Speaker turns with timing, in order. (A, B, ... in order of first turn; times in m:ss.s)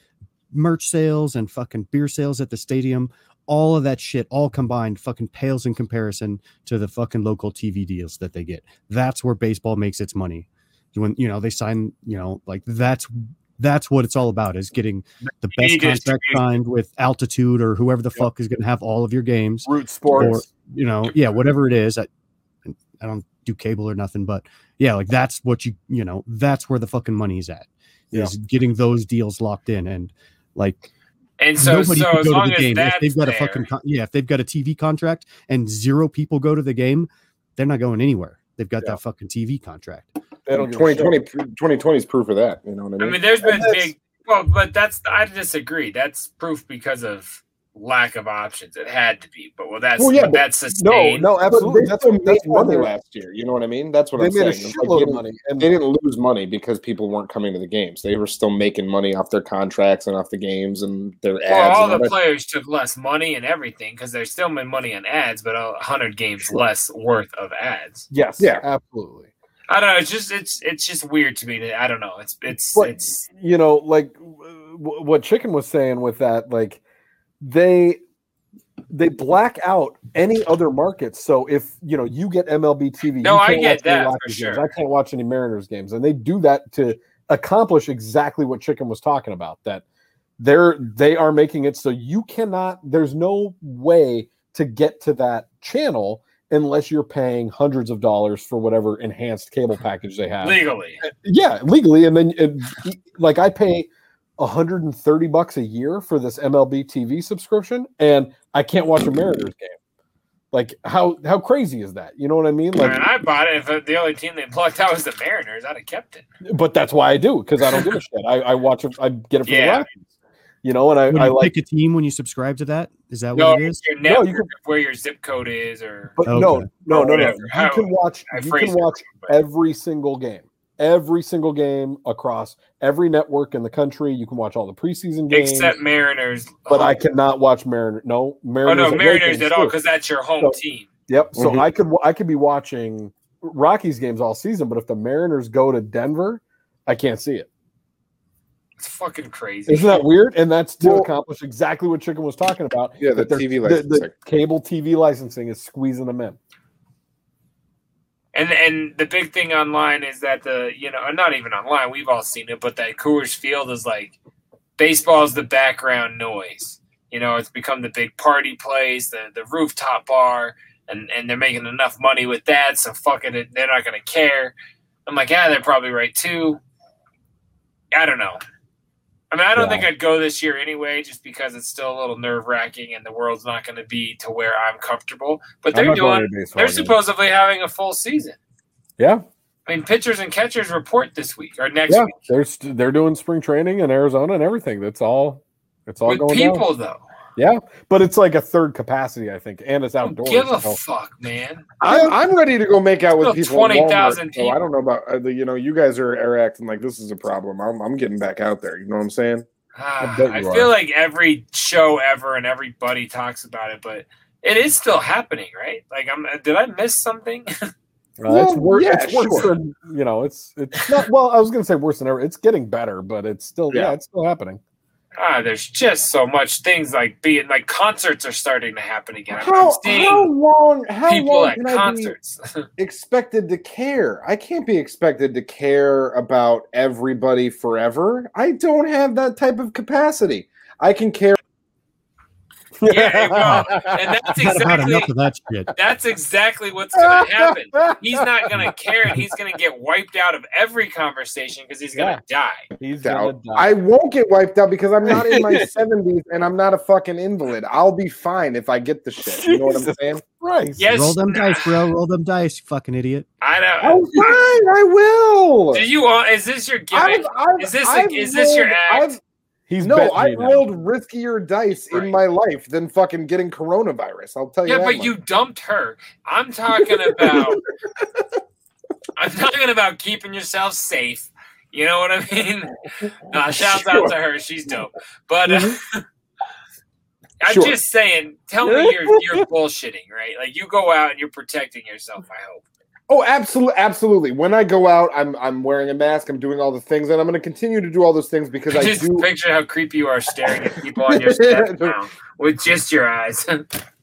0:00.5-0:22.1 A
0:15.5-0:16.4 B
0:19.6-0:20.4 C
0:22.6-0:30.8 A
0:31.4-0:33.7 B
0:31.6-0:40.1 A
0:40.4-0:41.2 C
0:40.6-0:43.2 D
0:43.0-0:51.3 B
0:43.4-0:43.9 C
0:50.0-0:50.4 D
0:50.7-0:52.9 C
0:51.4-1:02.1 D
0:54.2-0:55.7 C
1:01.5-1:08.1 B
1:08.1-1:09.3 C
1:09.7-1:13.2 B
1:12.7-1:16.8 C
1:17.4-1:18.0 C
1:18.9-1:29.8 C
1:23.2-1:24.6 B
1:30.4-1:43.9 C
1:40.4-1:41.0 B
1:44.4-1:49.8 C
1:50.5-1:53.0 C
1:52.8-1:56.2 B
1:56.4-2:00.0 C
1:59.4-1:59.8 B
2:00.6-2:01.5 C
2:01.1-2:03.8 A
2:03.3-2:06.2 B
2:04.0-2:04.5 C
2:06.2-2:15.7 C
2:06.3-2:06.7 A
2:06.9-2:09.3 B
2:15.3-2:17.0 B
2:16.7-2:19.8 C
2:18.6-2:20.9 B
2:20.4-2:27.5 C
2:21.4-2:21.6 D
2:28.8-2:30.0 B
2:29.7-2:36.4 C
2:30.8-2:31.1 D
2:33.0-2:34.1 D
2:38.3-2:44.2 B
2:44.8-2:54.5 B
2:55.0-2:56.6 B
2:57.9-2:58.4 B
2:59.3-3:08.4 B
2:59.6-2:59.9 C
3:05.7-3:07.0 C
3:09.0-3:09.2 C
3:09.7-3:12.1 B
3:11.9-3:16.6 C
3:16.0-3:17.0 B
3:17.4-3:20.8 C
3:20.1-3:21.7 B
3:21.8-3:29.4 D
3:21.8-3:22.1 C
3:23.2-3:24.6 B
3:29.7-3:37.5 B
3:30.0-3:30.7 C
3:38.2-3:44.6 C
3:38.2-3:39.5 D
3:45.2-3:50.3 B
3:49.3-3:52.1 D
3:51.1-3:52.6 B
3:52.8-4:01.4 D
4:02.8-4:04.0 C
4:02.9-4:05.1 B
4:04.4-4:05.7 A
4:05.8-4:12.6 B
4:07.0-4:08.0 C
4:11.9-4:12.2 C
4:12.8-4:13.7 C
4:13.0-4:20.2 D
4:15.0-4:15.7 C
4:19.2-4:20.9 C
4:20.8-4:21.7 B
4:20.9-4:23.3 A
4:23.4-4:24.0 B
4:23.8-4:25.9 D
4:25.7-4:29.1 B
4:26.9-4:29.2 D
4:29.7-4:30.6 C
4:29.8-4:35.1 D
4:34.6-4:37.6 B
4:37.1-4:37.5 D
4:39.2-4:42.7 B
4:43.3-4:46.0 B
4:43.6-4:44.0 D
4:47.4-4:52.6 B
4:47.5-4:47.8 D
4:48.6-4:49.4 C
4:53.1-4:59.3 D
4:58.7-5:03.6 B
5:01.1-5:02.0 D